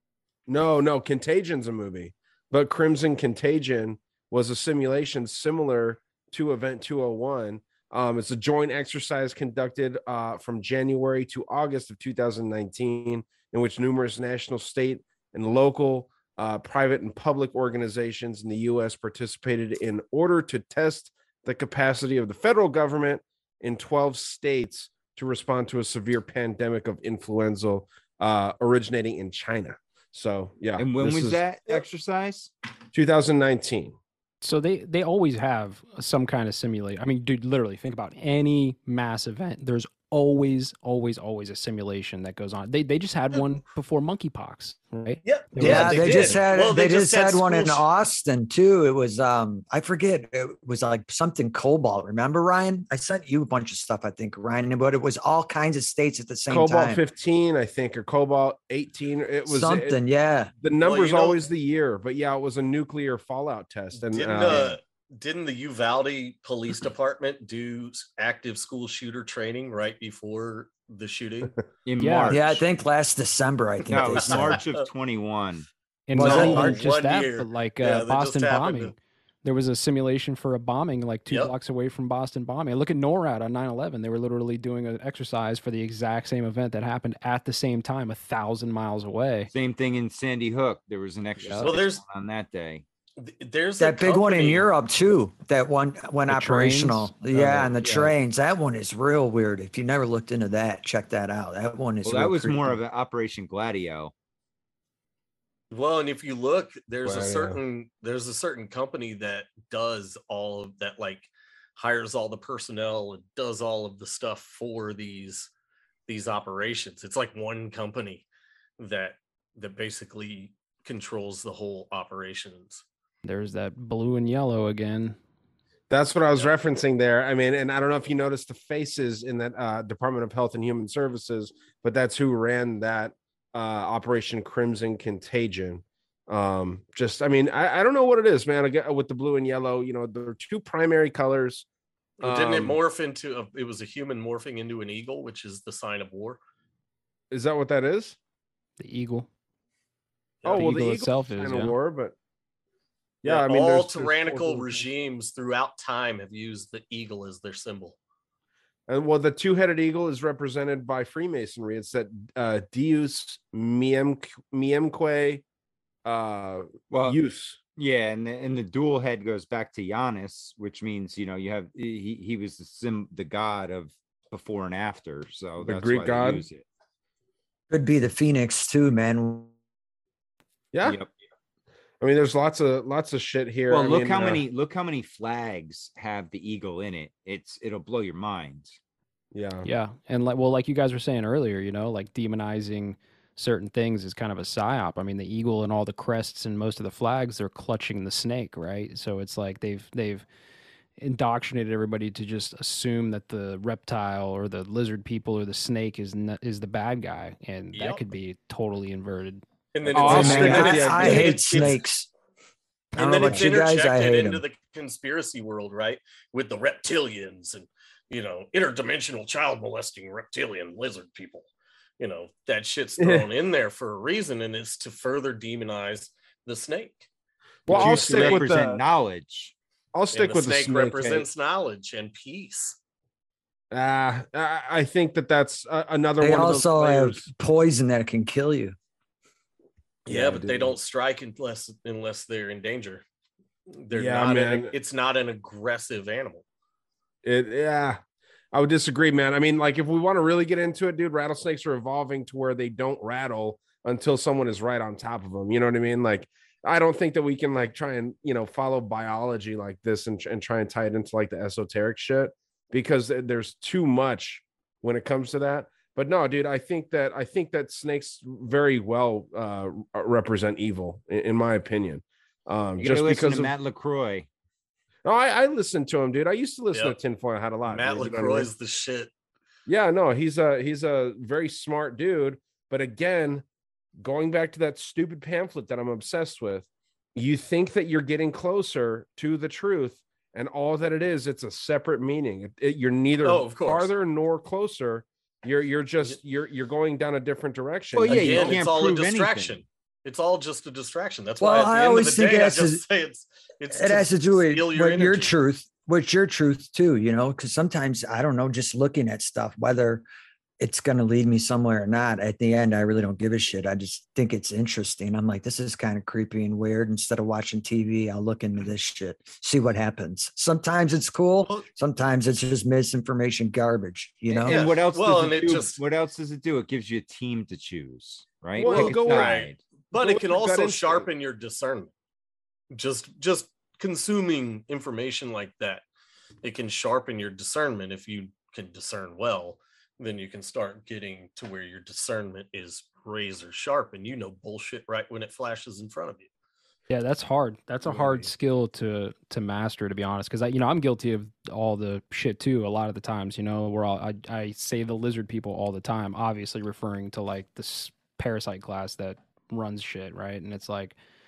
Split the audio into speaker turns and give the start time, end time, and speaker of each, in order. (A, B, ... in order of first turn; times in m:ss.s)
0:00.5-0:31.4 A
0:30.8-0:32.5 B
0:32.9-0:34.0 A
0:34.4-0:46.5 C
0:45.2-0:47.8 D
0:45.5-0:57.0 E
0:56.5-1:00.0 A
0:59.5-1:00.5 E
1:00.6-1:04.8 A
1:00.8-1:01.4 D
1:04.1-1:11.5 D
1:11.8-1:12.7 B
1:12.0-1:12.5 C
1:12.3-1:14.7 E
1:13.9-1:14.8 D
1:13.9-1:15.7 B
1:16.1-1:29.5 C
1:16.2-1:18.9 D
1:16.2-1:16.7 E
1:21.3-1:21.5 D
1:29.5-1:32.8 B
1:31.4-1:31.7 C
1:31.6-1:32.0 D
1:33.2-1:34.7 D
1:33.8-1:42.8 E
1:36.3-1:38.2 C
1:42.0-1:44.1 B
1:45.7-1:55.5 D
1:47.0-1:47.6 A
1:56.1-1:58.2 D
1:58.8-2:02.8 D
2:03.2-2:05.2 C
2:05.9-2:21.7 A
2:22.2-2:26.4 D
2:22.2-2:22.8 A
2:27.3-2:28.2 A
2:28.8-2:29.3 C
2:30.4-2:32.2 A
2:30.5-2:31.7 C
2:33.2-2:34.9 A
2:33.2-2:38.0 D
2:38.9-2:45.4 A
2:46.0-2:47.6 A
2:46.9-2:47.2 B
2:47.8-2:56.6 B
2:55.6-2:56.4 A
2:57.7-2:59.5 E
3:00.7-3:01.0 A
3:00.8-3:01.1 B
3:02.0-3:04.4 A
3:03.7-3:08.8 B
3:09.3-3:09.7 A
3:09.6-3:20.3 C
3:21.0-3:29.4 C
3:27.7-3:28.0 D
3:29.7-3:31.8 D
3:29.9-3:31.6 A
3:30.0-3:32.1 E
3:32.9-3:41.5 D
3:33.0-3:34.4 E
3:42.0-3:47.1 D
3:43.0-3:43.2 A
3:47.7-3:48.8 A
3:47.7-3:49.5 B
3:47.7-3:48.5 D
3:49.9-3:51.3 A
3:50.1-3:52.8 D
3:53.7-3:57.3 A
3:56.2-3:58.8 E
4:00.1-4:03.0 D
4:00.1-4:00.8 A
4:03.7-4:06.4 D
4:03.9-4:04.7 A
4:07.2-4:08.0 A
4:08.5-4:33.5 A
4:32.8-4:34.3 B
4:35.0-4:38.5 A
4:37.6-4:39.1 D
4:39.7-4:43.4 A
4:44.0-4:58.7 A
4:53.2-4:53.9 D
4:57.9-4:59.6 B
4:58.1-5:05.3 D
5:01.4-5:02.8 E
5:03.7-5:10.0 E
5:10.6-5:24.6 E
5:24.3-5:29.6 B
5:24.4-5:25.8 D
5:28.6-5:31.1 A
5:28.6-5:31.9 D
5:32.7-5:35.8 D
5:36.4-5:46.3 D
5:46.9-6:01.0 C
5:47.8-5:48.3 A